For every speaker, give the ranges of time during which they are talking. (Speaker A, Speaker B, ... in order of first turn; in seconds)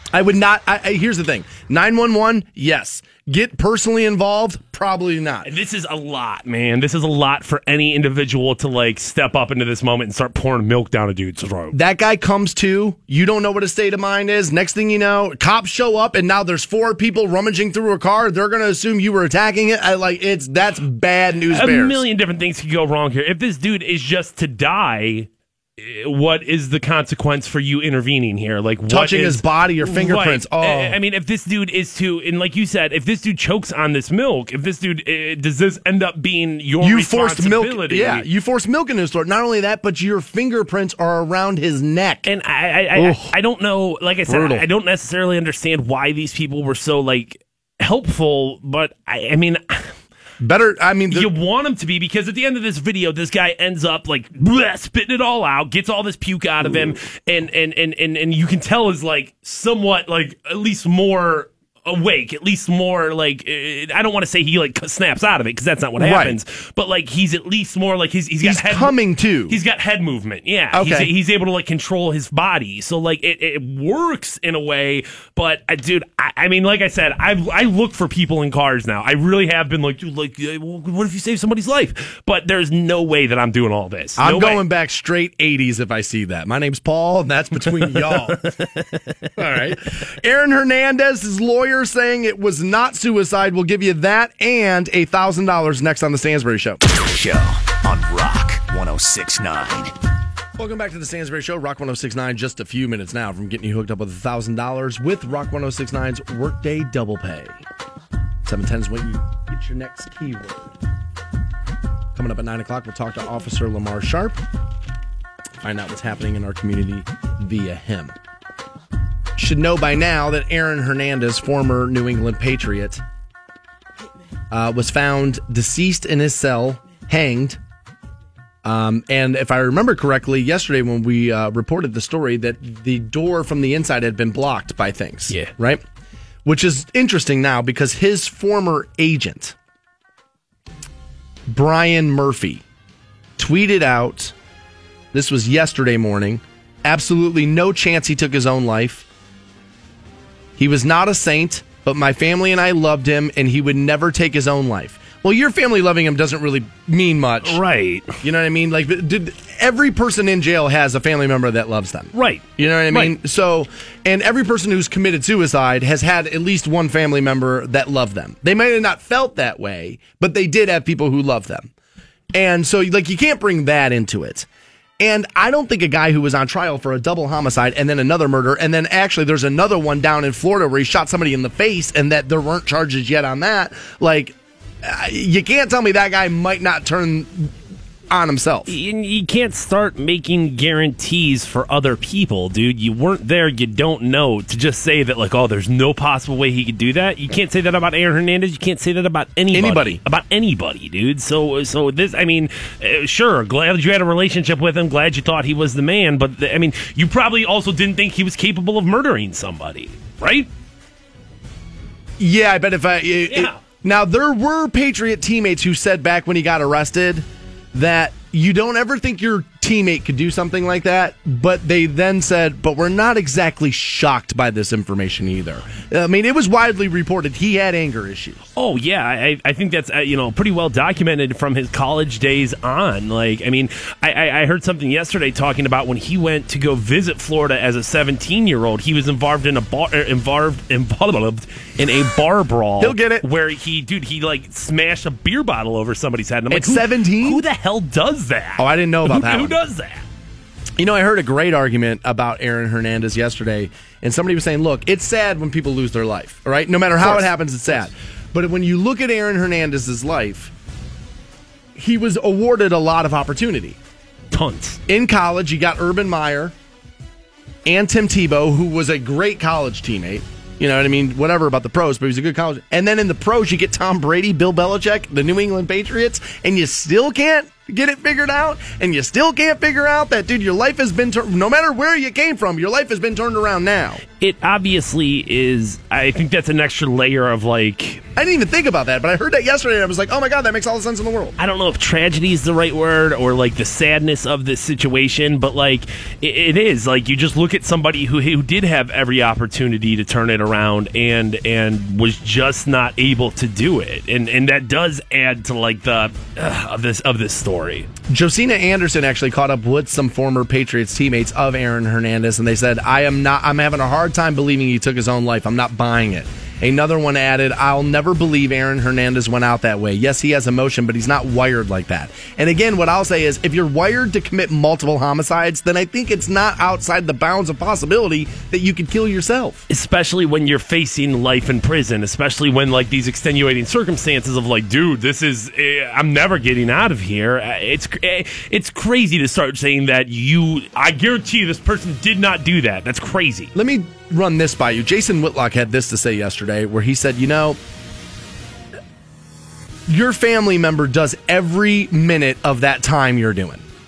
Speaker A: 0.1-5.5, 11.7-22.0, 28.9-31.0, 36.8-42.3, 42.9-43.4, 44.3-44.7, 50.4-51.3, 66.0-66.4, 68.4-69.6, 70.7-71.1, 84.2-88.5, 89.3-96.8, 100.5-107.6, 108.4-110.7, 112.1-114.4, 115.6-118.1, 119.3-123.0, 124.5-127.6, 128.6-135.8, 136.4-139.6, 141.5-142.6, 143.4-144.3, 145.1-149.1, 150.6-157.6, 158.2-171.7, 172.3-174.5, 175.0-187.5, 188.1-188.7, 199.5-200.0, 212.2-228.4, 242.8-243.2, 246.5-247.4, 248.6-249.6, 250.8-260.5, 261.7-263.8, 264.9-266.5, 267.6-284.0, 288.1-291.4, 308.1-329.6, 343.5-347.6, 349.9-353.6
Speaker B: 5.4-11.8, 21.5-38.3, 42.2-49.9, 51.1-84.6, 87.9-89.6, 157.4-158.2, 162.1-163.2, 188.7-210.5, 213.3-213.6, 228.6-250.0, 257.0-257.3, 264.3-264.8, 284.2-288.0, 291.4-307.9, 329.7-343.5
Speaker C: 96.9-99.9